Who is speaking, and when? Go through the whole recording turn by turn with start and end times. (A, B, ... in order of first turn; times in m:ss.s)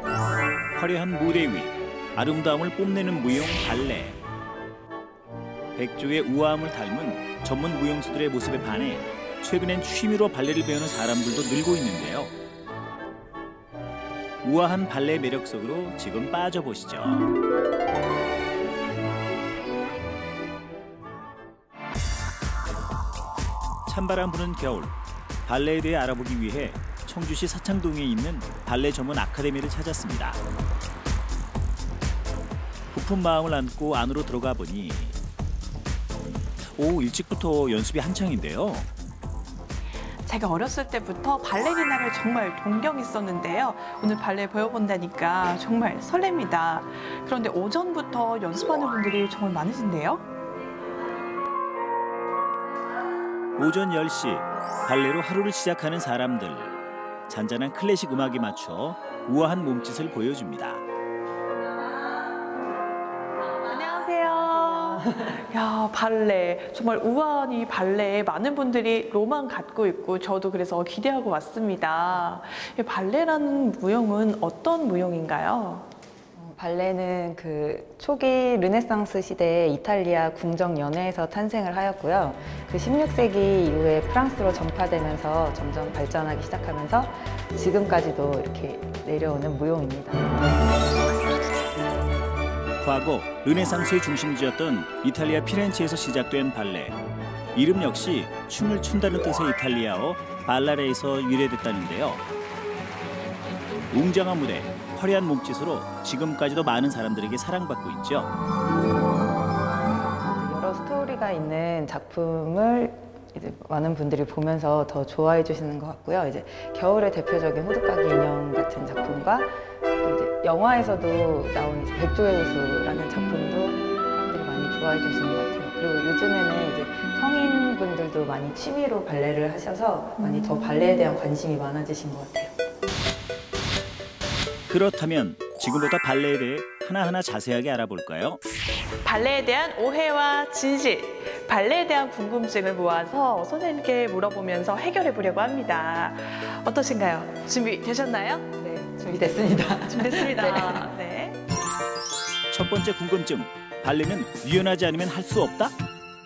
0:00.8-0:04.2 A
0:05.8-0:12.3 A
0:14.4-0:17.3 A
0:23.8-0:24.9 A
0:25.5-0:30.4 A
0:32.9-0:35.2 A
0:36.8-0:38.9 A
0:40.2-0:50.2 B
0:53.6-0:56.7 A
0:57.3-1:00.8 A
1:03.6-1:15.9 B
1:04.4-1:05.4 C
1:16.4-1:30.3 C
1:32.8-1:37.0 A
1:37.5-1:42.2 A
1:43.9-1:48.3 A
1:50.2-2:12.5 C
2:14.7-2:18.4 A
2:19.0-2:28.4 B
2:28.6-2:30.9 C
2:29.9-2:31.4 B
2:32.5-2:35.7 A